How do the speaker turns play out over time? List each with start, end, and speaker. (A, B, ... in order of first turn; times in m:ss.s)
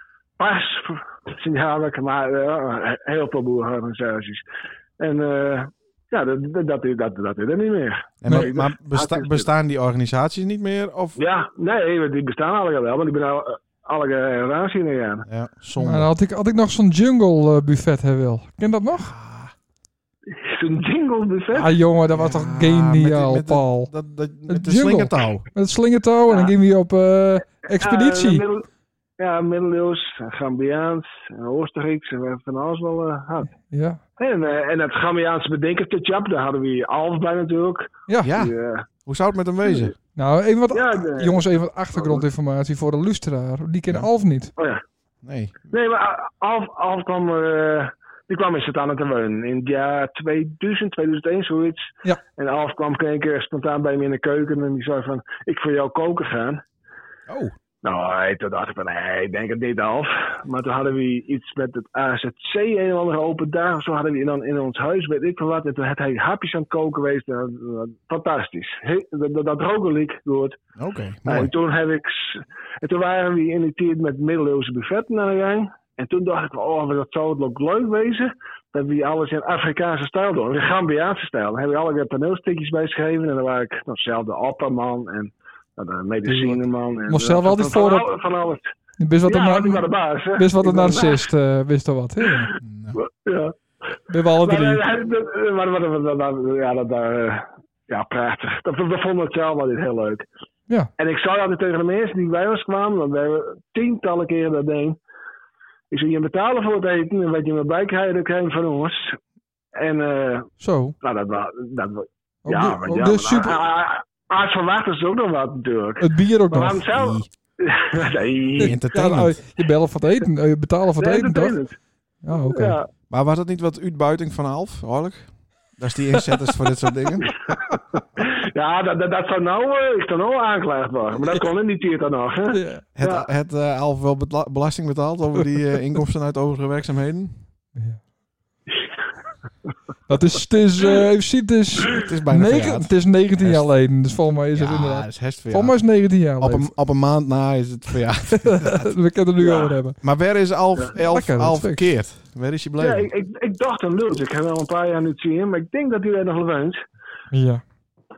0:00.4-0:04.4 A
0:05.0-0:09.5 A
0:08.2-0:11.2 B
0:11.2-0:15.2 A
0:15.3-0:16.1 B
0:15.8-0:19.1 C
0:18.9-0:19.5 B
0:20.4-0:21.7 A
0:21.5-0:23.9 C
0:22.1-0:25.4 B
0:24.5-0:28.4 C
0:26.3-0:26.5 A
0:27.7-0:28.6 A
0:29.2-0:33.5 A
0:33.5-0:34.0 C
0:34.2-0:38.9 A
0:38.1-0:38.3 C
0:38.2-0:39.9 B
0:39.7-0:39.9 A
0:40.2-0:44.5 C
0:40.7-0:41.4 A
0:42.0-0:42.2 A
0:44.6-0:44.8 A
0:45.2-0:45.6 B
0:45.7-0:56.6 A
0:57.3-0:57.5 B
0:57.8-1:10.6 A
1:10.8-1:11.5 B
1:11.2-1:28.7 A
1:26.2-1:28.1 C
1:29.0-1:32.5 C
1:29.2-1:31.2 A
1:32.6-1:33.0 B
1:33.0-1:33.5 A
1:34.1-1:34.8 C
1:34.4-1:40.2 A
1:41.0-1:45.0 A
1:45.9-1:49.2 A
1:49.8-1:58.8 A
1:50.6-1:51.0 C
1:52.4-1:53.6 C
1:56.0-1:56.8 C
1:56.9-1:57.3 B
1:58.6-1:59.4 B
1:58.6-2:01.6 C
2:01.0-2:01.8 A
2:02.2-2:02.8 C
2:02.5-2:02.8 A
2:03.1-2:07.4 B
2:08.0-2:13.2 A
2:12.5-2:12.8 C
2:13.0-2:17.3 B
2:17.8-2:18.0 C
2:20.1-2:26.7 C
2:21.9-2:23.7 B
2:24.5-2:28.9 B
2:28.3-2:30.0 C
2:29.4-2:29.7 A
2:30.0-2:33.1 B
2:31.0-2:31.9 C
2:32.8-2:36.8 A
2:37.3-2:37.6 C